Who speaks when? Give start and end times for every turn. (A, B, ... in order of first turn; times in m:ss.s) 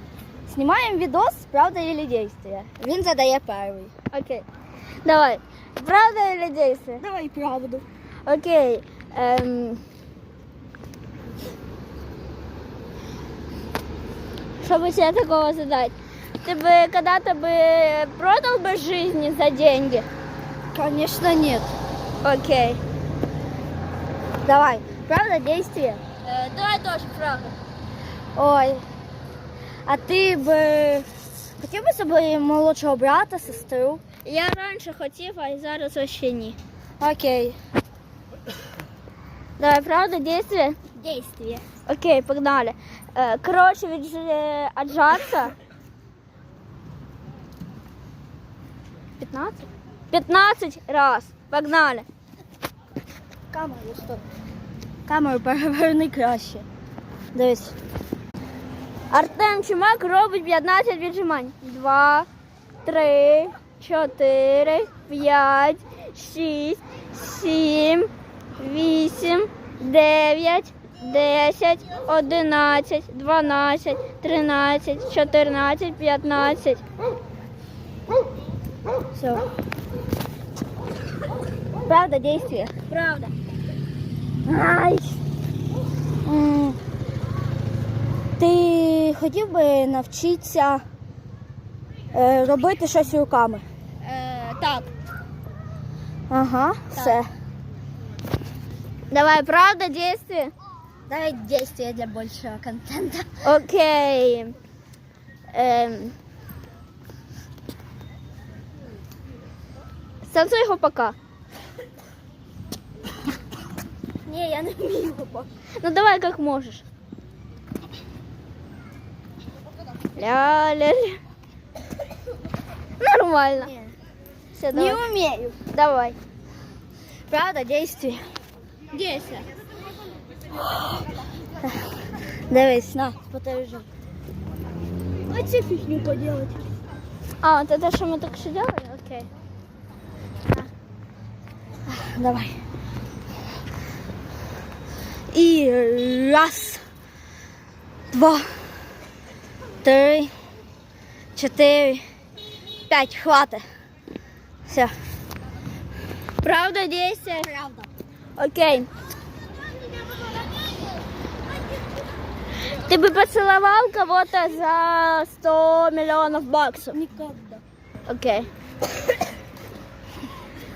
0:00.5-0:03.9 A
0:04.1-0:04.4 B
0:05.0-0:07.0 B
0:07.0-0:07.8 A
0:08.3-0:09.8 B
0:14.6-0:20.1 B
0:20.7-0:21.7 A
0:22.2-0:22.8 B
0:24.4-0:26.0 A
0:26.2-0:27.6 B
0:28.4-0:28.8 A
0:29.9-0:31.1 A
0:31.6-0:34.0 A
0:34.2-0:36.6 B
0:37.0-0:37.6 A
0:39.6-0:40.8 B
0:41.0-0:41.6 A
0:41.9-0:45.6 B
0:49.2-0:52.1 B
0:53.5-0:54.2 A
0:55.1-0:56.7 A
0:57.3-0:57.8 A
0:59.1-1:02.3 B
1:02.8-1:16.8 B
1:19.1-1:19.5 A
1:21.9-1:22.8 A
1:22.9-1:23.3 B
1:24.5-1:25.2 A
1:26.2-1:26.8 A
1:28.4-1:30.8 A
1:32.1-1:33.6 A
1:34.0-1:34.9 B
1:36.3-1:37.3 A
1:36.9-1:37.2 B
1:39.1-1:40.5 B
1:41.1-1:43.4 A
1:43.4-1:44.6 B
1:45.5-1:46.2 B
1:50.2-1:51.2 B
1:54.3-1:55.5 A
1:55.8-1:56.8 B
2:00.2-2:01.2 B
2:03.0-2:03.7 B
2:04.6-2:05.0 B
2:04.7-2:05.6 A
2:05.7-2:06.2 B
2:07.3-2:08.2 A
2:08.9-2:09.5 B
2:12.5-2:13.9 A
2:15.3-2:16.6 A
2:17.4-2:19.3 B
2:21.9-2:22.6 A
2:25.3-2:26.8 A
2:28.1-2:28.6 A
2:29.8-2:30.3 A
2:31.4-2:32.0 A
2:32.9-2:33.6 A
2:34.7-2:34.9 A
2:36.4-2:37.5 B
2:37.4-2:37.9 A
2:38.4-2:38.9 B
2:42.7-2:47.0 B
2:46.9-2:47.6 A
2:48.1-2:48.5 B